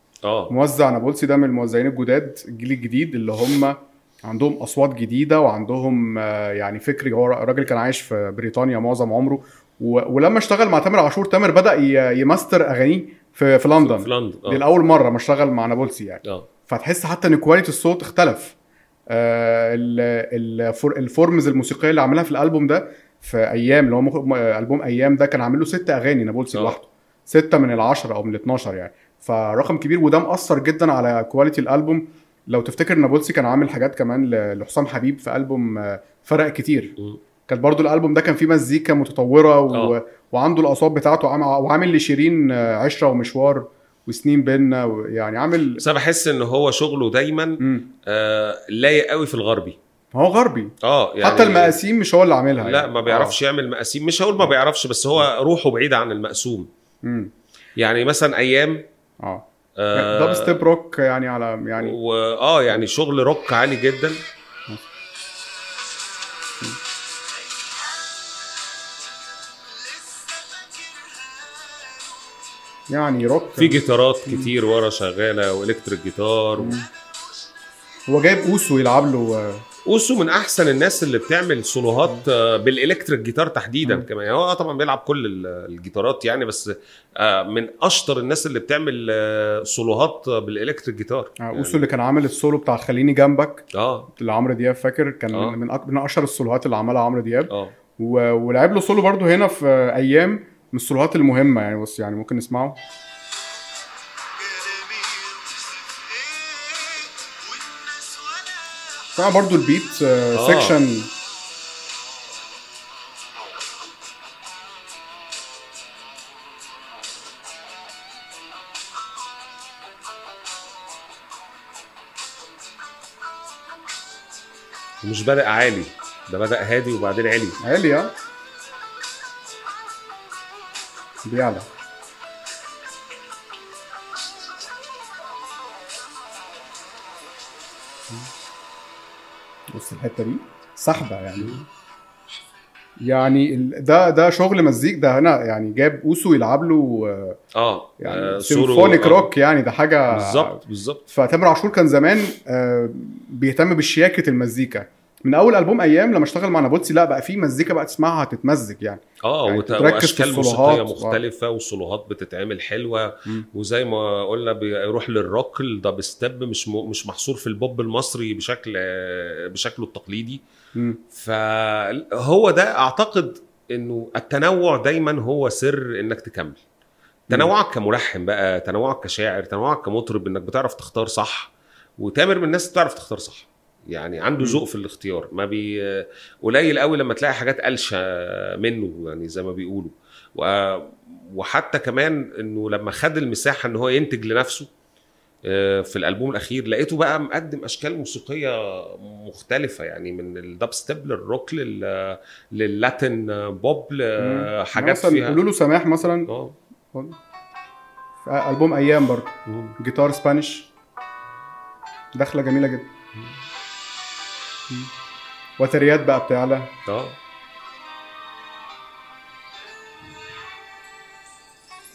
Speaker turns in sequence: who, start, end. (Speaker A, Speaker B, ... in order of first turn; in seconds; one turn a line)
Speaker A: 0.2-0.5
Speaker B: 0.5-18.6
Speaker A: 13.8-14.7
Speaker B: 19.1-37.0
Speaker B: 37.5-45.8
Speaker A: 45.8-49.8
Speaker B: 47.6-47.9
Speaker B: 50.1-53.4
Speaker A: 50.8-51.8
Speaker A: 52.6-56.7
Speaker B: 57.0-57.3
Speaker A: 57.8-58.9
Speaker B: 59.2-62.0
Speaker A: 59.8-60.6
Speaker A: 61.8-64.2
Speaker B: 72.9-74.5
Speaker A: 73.6-76.8
Speaker B: 76.6-76.9
Speaker B: 78.1-79.6
Speaker A: 79.9-91.8
Speaker B: 91.4-102.8
Speaker A: 93.7-94.1
Speaker A: 97.5-97.8
Speaker B: 109.2-111.1
Speaker A: 110.3-110.8
Speaker A: 125.0-127.6
Speaker B: 127.6-128.1
Speaker B: 131.3-131.7
Speaker B: 139.7-141.6
Speaker B: 143.0-147.4
Speaker A: 147.6-149.3
Speaker B: 148.0-161.2
Speaker A: 150.1-151.0
Speaker A: 159.2-170.4
Speaker B: 170.8-171.0
Speaker A: 171.1-176.6
Speaker A: 177.3-194.7
Speaker A: 195.5-205.4
Speaker B: 204.2-206.3
Speaker A: 206.3-206.6
Speaker B: 208.3-210.7
Speaker A: 209.5-209.8
Speaker B: 212.2-212.9
Speaker B: 215.6-216.8
Speaker A: 216.9-217.2